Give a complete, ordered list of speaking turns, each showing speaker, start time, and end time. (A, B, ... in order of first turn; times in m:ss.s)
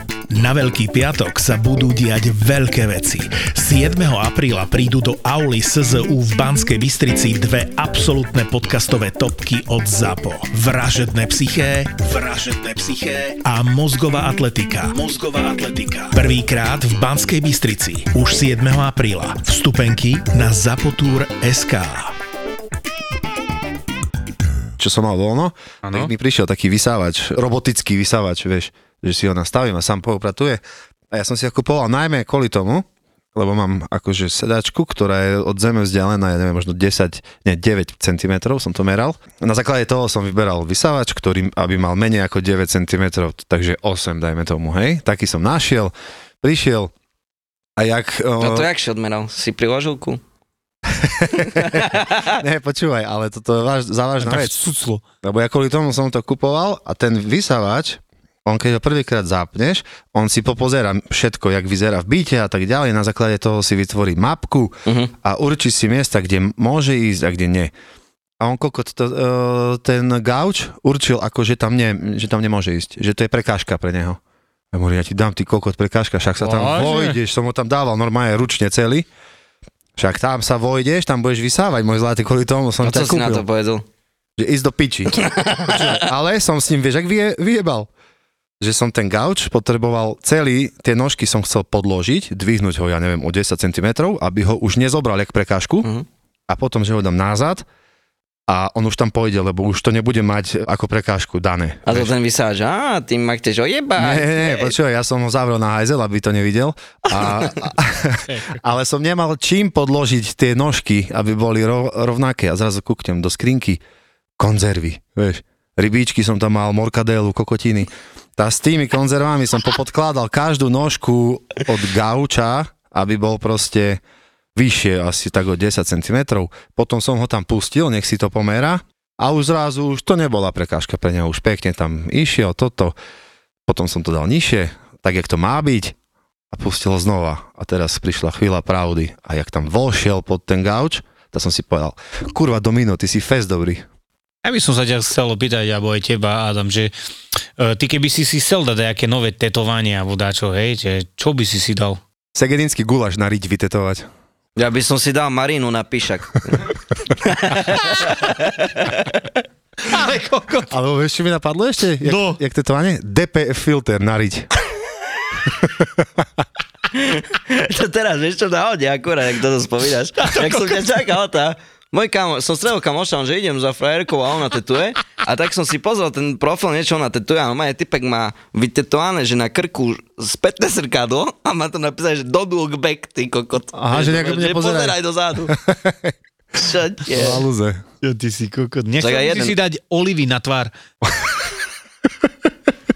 0:00.3-0:22.2 A
0:24.8-0:46.9 B
0:25.8-0:26.1 C
0:47.8-0:48.7 B
0:48.4-0:50.2 D
0:50.9-0:54.6 B
0:51.4-0:52.4 D
0:54.2-0:55.0 C
0:55.2-1:07.7 B
1:04.9-1:05.1 D
1:08.4-1:14.2 B
1:14.7-1:19.1 B
1:16.4-1:17.2 C
1:20.0-1:23.4 B
1:22.8-1:23.8 D
1:24.4-1:27.9 B
1:25.2-1:26.0 D
1:28.6-1:35.9 B
1:36.5-1:37.7 B
1:38.5-1:42.1 B
1:41.9-1:44.8 D
1:44.0-1:53.8 B
1:47.2-1:47.5 D
1:48.3-1:48.6 C
1:54.4-2:04.0 B
2:04.6-2:13.0 B
2:13.7-2:16.0 B
2:16.5-2:23.9 B
2:24.4-2:26.9 C
2:27.6-2:32.0 C
2:32.3-2:34.1 B
2:34.6-2:39.3 D
2:39.9-2:40.7 C
2:40.7-2:44.5 B
2:42.0-2:42.4 C
2:46.9-3:05.6 D
2:50.2-2:50.9 C
3:03.7-3:05.0 B
3:05.5-3:06.1 B
3:06.6-3:07.4 D
3:07.1-3:07.8 B
3:08.0-3:10.7 C
3:09.0-3:09.6 D